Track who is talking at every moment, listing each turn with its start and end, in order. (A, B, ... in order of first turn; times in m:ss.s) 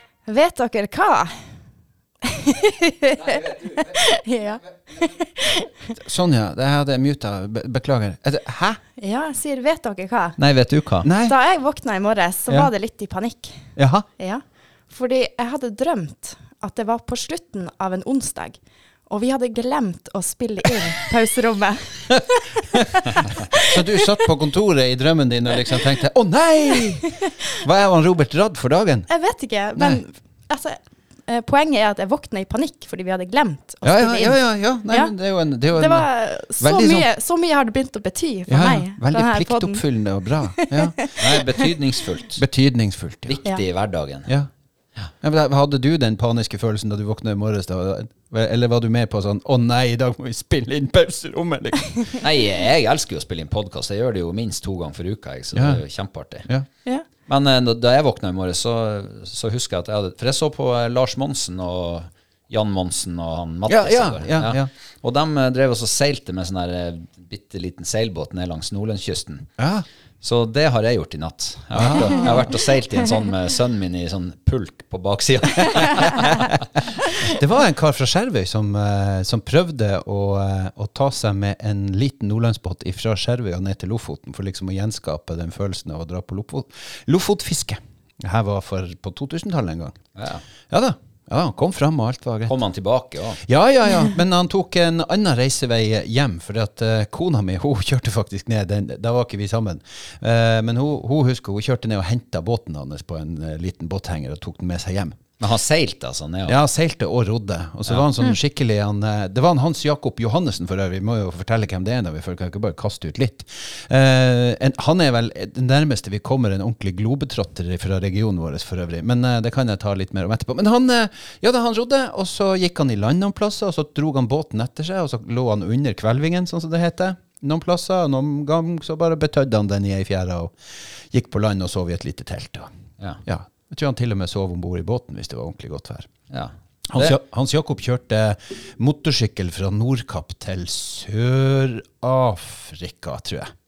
0:00.3-0:01.5 A
0:02.2-0:06.0 A
0:06.0-0:08.8 B
0:09.0-0:10.4 A
0:10.4-0:11.1 C
0:11.0-0:11.4 B
0:11.2-0:13.7 A
0:13.8-0:14.1 B
0:14.2-0:24.1 A
0:23.5-0:29.1 B
0:27.0-0:27.3 A
0:29.1-0:35.1 A
0:29.8-0:30.0 B
0:33.8-0:37.1 B
0:35.7-0:39.8 A
0:38.5-0:41.1 B
0:40.5-0:41.6 A
0:41.2-0:42.4 C
0:42.4-0:43.4 B
0:43.3-0:44.3 C
0:45.2-0:52.2 B
0:52.2-0:56.5 C
0:55.5-0:55.8 B
0:57.3-1:09.5 C
1:03.7-1:04.7 B
1:09.6-1:09.8 B
1:10.2-1:16.8 C
1:11.7-1:12.5 B
1:17.2-1:30.0 B
1:30.2-1:30.4 C
1:30.7-1:32.6 B
1:32.5-1:33.4 C
1:33.4-1:45.2 B
1:45.4-1:46.6 C
1:46.5-2:10.6 B
2:11.1-2:12.7 B
2:13.2-2:16.1 B
2:16.3-2:17.1 C
2:16.9-2:23.5 B